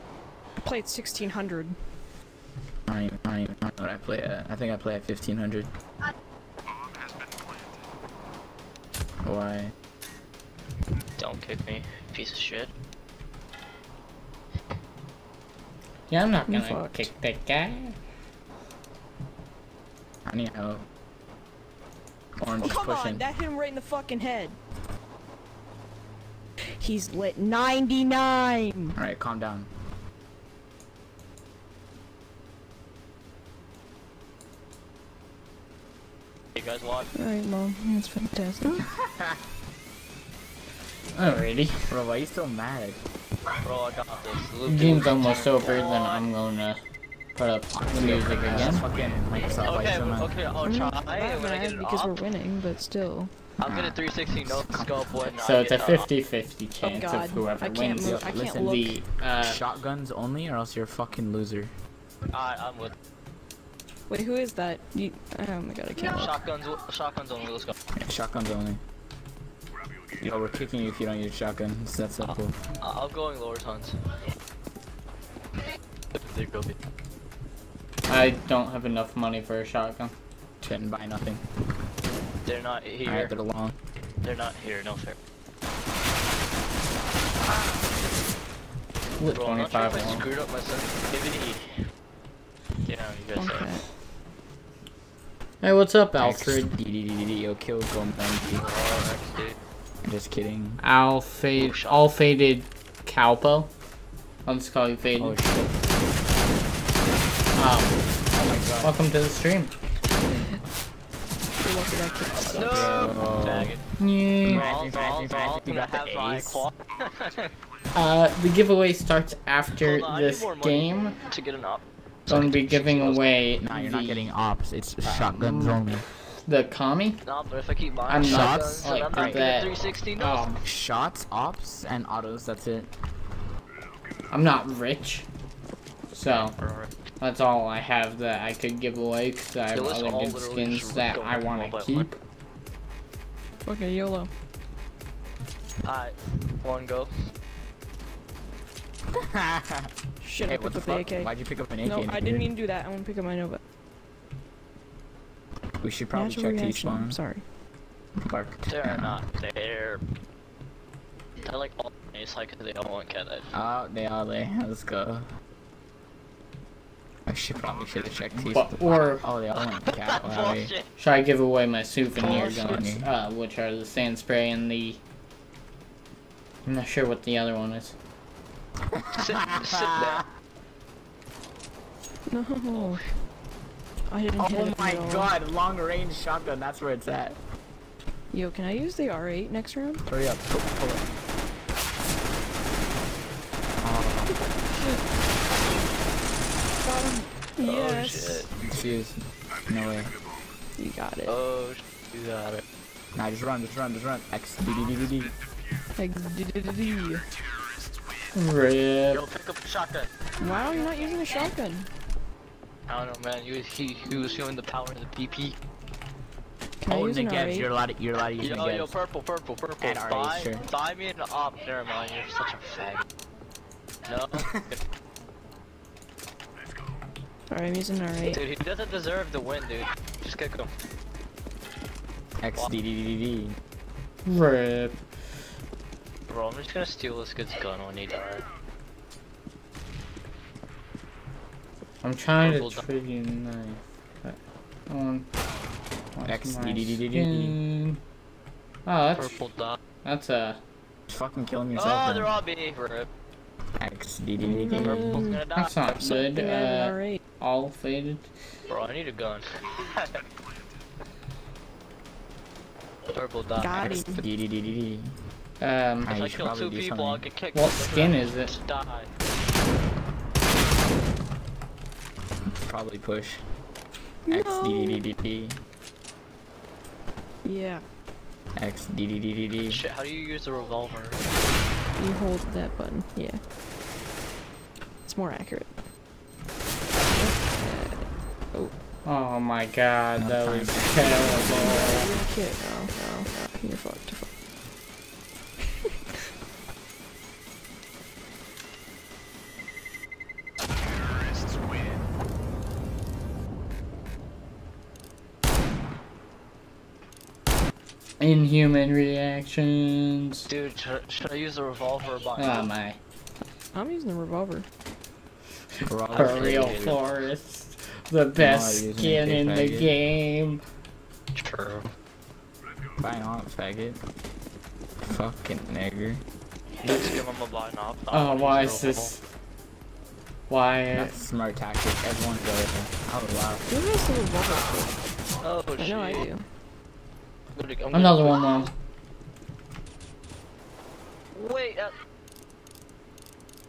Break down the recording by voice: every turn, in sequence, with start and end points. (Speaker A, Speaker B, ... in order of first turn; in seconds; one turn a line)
Speaker A: 0.6-1.8
Speaker B: 2.9-5.7
Speaker B: 9.2-9.7
Speaker C: 11.2-12.7
Speaker D: 16.1-18.0
Speaker A: 16.5-17.1
Speaker B: 20.3-20.8
Speaker B: 22.4-23.2
Speaker A: 22.6-24.6
Speaker A: 26.7-29.0
Speaker B: 28.9-29.7
Speaker C: 36.5-37.1
Speaker A: 37.1-38.9
Speaker B: 38.7-39.4
Speaker D: 41.1-41.9
Speaker B: 41.9-43.0
Speaker C: 43.6-46.2
Speaker D: 44.6-46.8
Speaker D: 47.4-48.9
Speaker B: 47.7-50.3
Speaker C: 49.5-52.1
Speaker A: 50.6-53.3
Speaker C: 53.6-56.1
Speaker B: 53.7-55.3
Speaker D: 55.4-59.6
Speaker A: 56.8-58.9
Speaker B: 58.0-61.7
Speaker C: 62.3-62.9
Speaker A: 64.1-66.4
Speaker C: 66.1-67.7
Speaker B: 68.0-68.8
Speaker B: 70.2-72.6
Speaker C: 72.3-74.0
Speaker C: 76.1-76.8
Speaker D: 78.1-80.1
Speaker B: 80.6-81.5
Speaker C: 82.4-83.3
Speaker B: 83.0-83.8
Speaker C: 84.2-85.2
Speaker D: 89.2-90.2
Speaker C: 89.3-91.8
Speaker C: 92.8-93.7
Speaker A: 93.4-93.8
Speaker D: 95.6-96.7
Speaker B: 96.2-98.6
Speaker C: 98.5-99.6
Speaker B: 100.0-100.8
Speaker D: 100.8-103.7
Speaker C: 101.5-102.1
Speaker D: 104.5-105.4
Speaker B: 105.2-105.9
Speaker D: 107.5-108.0
Speaker B: 108.3-109.0
Speaker D: 108.8-109.7
Speaker A: 111.6-113.2
Speaker C: 112.4-113.8
Speaker B: 112.5-113.7
Speaker D: 114.0-114.7
Speaker B: 114.4-116.7
Speaker C: 114.5-117.5
Speaker D: 117.9-121.2
Speaker C: 119.8-123.3
Speaker D: 122.3-124.3
Speaker B: 123.6-126.1
Speaker D: 125.0-127.2
Speaker C: 127.2-130.5
Speaker D: 128.1-130.6
Speaker B: 128.2-129.4
Speaker B: 130.6-132.9
Speaker D: 134.3-135.3
Speaker D: 136.1-136.6
Speaker C: 136.3-136.9
Speaker D: 137.2-142.2
Speaker C: 139.7-142.1
Speaker A: 143.6-144.3
Speaker C: 145.8-147.1
Speaker B: 149.1-149.9
Speaker A: 150.2-153.6
Speaker B: 150.4-152.4
Speaker B: 155.8-157.2
Speaker A: 156.1-157.4
Speaker B: 158.2-159.2
Speaker C: 158.7-160.0
Speaker C: 161.4-163.5
Speaker B: 163.5-165.2
Speaker B: 167.3-170.7
Speaker D: 168.4-169.2
Speaker C: 169.6-170.9
Speaker D: 171.0-175.0
Speaker B: 172.2-173.1
Speaker A: 172.2-172.9
Speaker D: 176.7-177.9
Speaker B: 178.9-180.2
Speaker C: 179.1-180.2
Speaker A: 182.3-183.1
Speaker C: 182.7-183.0
Speaker A: 184.1-185.3
Speaker B: 184.4-187.4
Speaker A: 188.3-190.1
Speaker B: 190.1-191.1
Speaker B: 193.8-194.4
Speaker A: 196.8-198.5
Speaker C: 197.6-198.7
Speaker B: 198.6-200.1
Speaker A: 200.8-201.3
Speaker C: 201.3-202.6
Speaker B: 203.1-205.3
Speaker A: 205.9-207.3
Speaker D: 208.3-209.2
Speaker C: 209.1-210.1
Speaker A: 210.4-211.9
Speaker C: 212.9-215.6
Speaker A: 216.8-217.7
Speaker B: 216.9-218.9
Speaker C: 218.4-223.1
Speaker B: 219.8-220.6
Speaker C: 224.1-224.7
Speaker A: 227.5-228.4
Speaker C: 228.2-230.7
Speaker B: 232.4-233.6
Speaker D: 234.3-235.0
Speaker C: 236.3-238.4
Speaker D: 242.0-244.4
Speaker C: 242.4-242.9
Speaker D: 244.9-245.3
Speaker D: 246.1-248.0
Speaker B: 246.2-247.6
Speaker D: 248.9-249.4
Speaker C: 249.2-249.8
Speaker D: 250.0-250.6
Speaker B: 251.1-252.4
Speaker C: 251.8-253.1
Speaker B: 253.8-255.3
Speaker A: 254.4-257.2
Speaker C: 254.8-255.9
Speaker D: 255.6-258.3
Speaker C: 258.7-260.2
Speaker C: 263.1-264.0
Speaker A: 263.6-264.2
Speaker B: 263.8-265.1
Speaker D: 265.6-266.1
Speaker B: 266.0-267.2
Speaker C: 266.1-269.1
Speaker D: 267.6-268.6
Speaker B: 272.5-273.4
Speaker A: 274.2-275.0
Speaker B: 274.3-275.6
Speaker A: 277.4-277.8
Speaker B: 278.6-279.8
Speaker C: 279.7-281.2
Speaker A: 281.9-283.4
Speaker A: 285.0-285.7
Speaker A: 287.0-288.7
Speaker D: 289.1-292.1
Speaker B: 290.2-291.7
Speaker A: 291.4-294.3
Speaker D: 308.2-310.5
Speaker C: 310.5-312.7
Speaker D: 312.4-313.0
Speaker A: 313.7-314.6
Speaker B: 315.9-317.0
Speaker C: 316.1-316.9
Speaker D: 316.1-320.6
Speaker B: 318.4-319.9
Speaker C: 321.3-321.9
Speaker B: 323.0-324.0
Speaker B: 325.1-326.2
Speaker C: 326.8-329.1
Speaker D: 328.1-329.2
Speaker D: 330.5-331.1
Speaker B: 330.9-333.7
Speaker A: 333.7-335.0
Speaker C: 335.4-336.3
Speaker A: 335.8-336.4
Speaker C: 337.5-338.6
Speaker D: 337.9-338.7
Speaker C: 341.3-341.9